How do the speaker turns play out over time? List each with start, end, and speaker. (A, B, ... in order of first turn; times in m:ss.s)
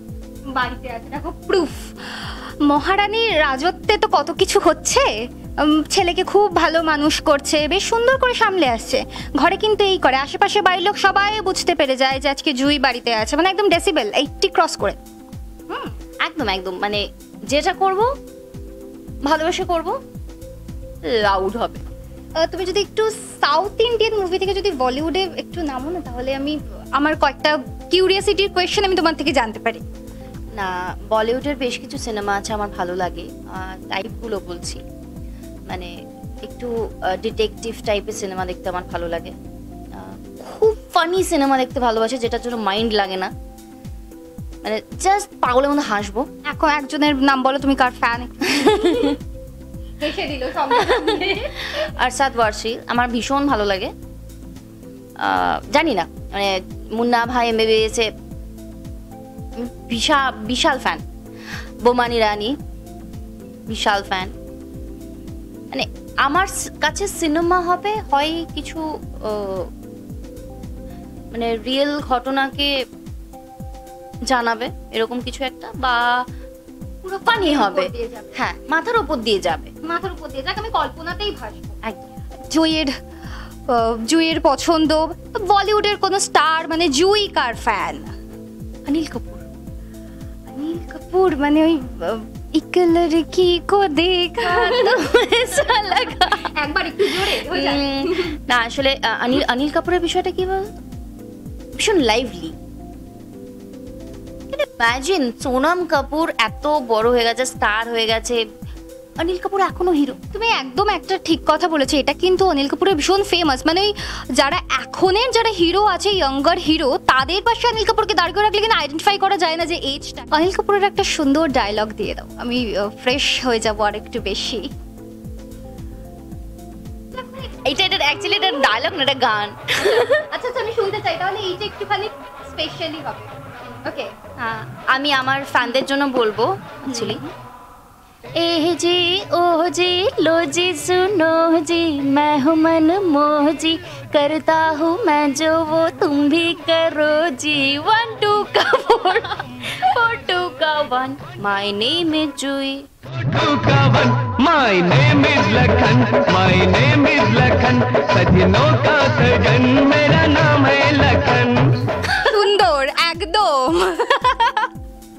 0:00.5-0:05.1 A
0:05.6-0:15.0 A
0:16.2-0:18.1 B
0:19.2-0:20.0 B
0:21.0-0:21.8 B
0:22.4-0:29.8 A
0:30.5-0:34.8 B
0:35.7-0:39.3 B
0:39.9-0:43.3 B
0:44.6-0:46.3 B
0:46.4-0:49.2 A
0:48.6-0:49.1 B
0:50.0-0:51.9 A
0:50.6-0:53.9 B
0:55.2-0:58.1 B
0:59.5-1:01.0 B
1:01.8-1:02.6 B
1:03.7-1:04.3 B
1:05.7-1:09.7 B
1:11.3-1:12.7 B
1:14.2-1:16.2 B
1:17.0-1:18.4 A
1:17.2-1:19.7 B
1:19.8-1:21.8 A
1:21.8-1:22.1 B
1:22.5-1:23.0 A
1:23.7-1:28.1 A
1:28.8-1:29.4 B
1:30.5-1:38.4 A
1:34.4-1:36.5 B
1:37.1-1:40.7 B
1:41.7-1:42.6 B
1:44.5-1:48.4 B
1:49.2-1:50.2 B
1:50.3-2:04.7 A
2:07.1-2:07.6 A
2:07.6-2:10.2 B
2:09.9-2:13.3 A
2:13.8-2:14.1 A
2:14.4-2:17.2 B
2:16.9-2:17.3 A
2:18.4-2:32.9 B
2:33.2-2:41.7 C
2:42.1-2:44.7 A